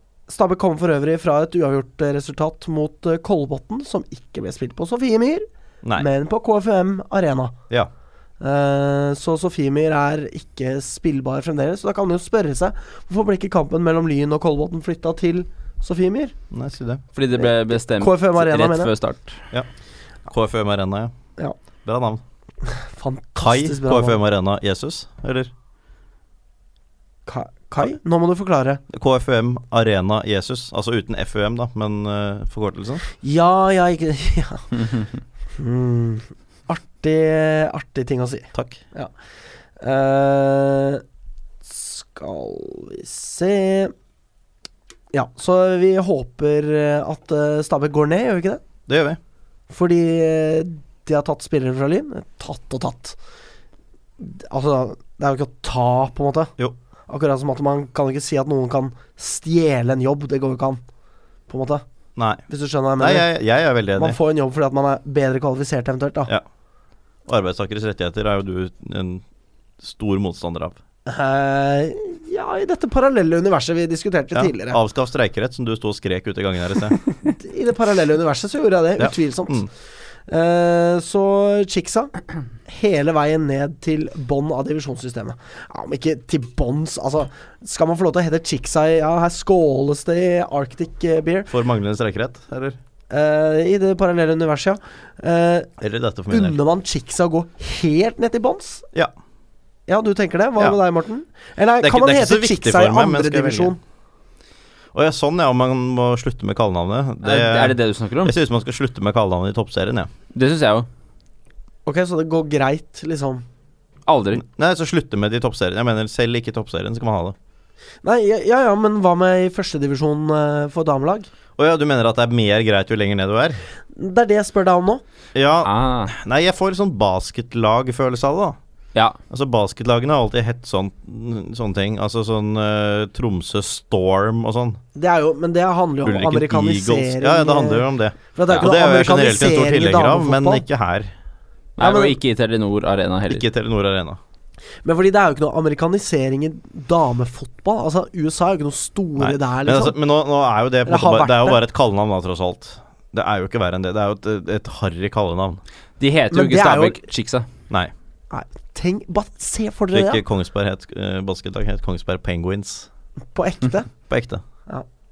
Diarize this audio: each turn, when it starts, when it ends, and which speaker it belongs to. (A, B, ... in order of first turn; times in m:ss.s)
0:00.3-0:07.5 A
0:08.4-0:16.4 A
0:16.5-0:17.0 B
0:17.1-0:19.4 C
0:17.4-0:18.9 A
0:20.3-0:21.1 B
0:21.8-0:22.2 B
0:22.7-0:24.2 A
0:23.4-0:25.5 B
0:27.3-0:28.8 A
0:28.9-0:33.0 B
0:33.2-0:34.8 A
0:35.6-0:39.1 A
0:38.5-0:38.8 B
0:39.8-0:41.0 A
0:41.6-0:43.9 A
0:45.1-0:48.6 A
0:48.9-0:49.2 B
0:49.7-0:53.2 A
0:54.2-0:56.5 A
0:57.1-1:00.8 A
1:01.5-1:01.8 A
1:02.2-1:02.4 B
1:02.5-1:03.3 A
1:03.0-1:04.2 B
1:04.0-1:06.3 A
1:07.3-1:09.2 B
1:09.8-1:10.8 B
1:11.1-1:14.8 A
1:14.3-1:17.0 B
1:17.2-1:19.7 A
1:19.0-1:19.7 B
1:20.3-1:22.1 A
1:22.6-1:31.5 A
1:31.5-1:32.8 B
1:33.1-1:35.7 A
1:35.8-1:36.6 B
1:36.3-1:38.8 A
1:39.9-1:43.8 A
1:41.8-1:43.8 B
1:44.9-1:50.1 B
1:47.2-1:48.4 C
1:50.3-1:50.9 C
1:51.9-1:53.4 A
1:54.1-1:54.4 C
1:54.4-1:57.4 B
1:58.0-2:01.3 A
2:01.6-2:03.6 B
2:04.0-2:05.0 A
2:05.4-2:08.6 B
2:05.6-2:06.1 C
2:09.3-2:14.8 B
2:15.0-2:20.6 A
2:16.0-2:21.1 B
2:21.8-2:23.4 C
2:21.8-2:22.2 A
2:23.3-2:24.2 B
2:24.8-2:30.0 A
2:29.2-2:35.6 B
2:30.9-2:31.6 A
2:36.0-2:37.5 C
2:36.3-2:37.0 A
2:38.3-2:40.2 A
2:39.9-2:42.9 B
2:43.3-2:43.9 A
2:44.1-2:44.4 B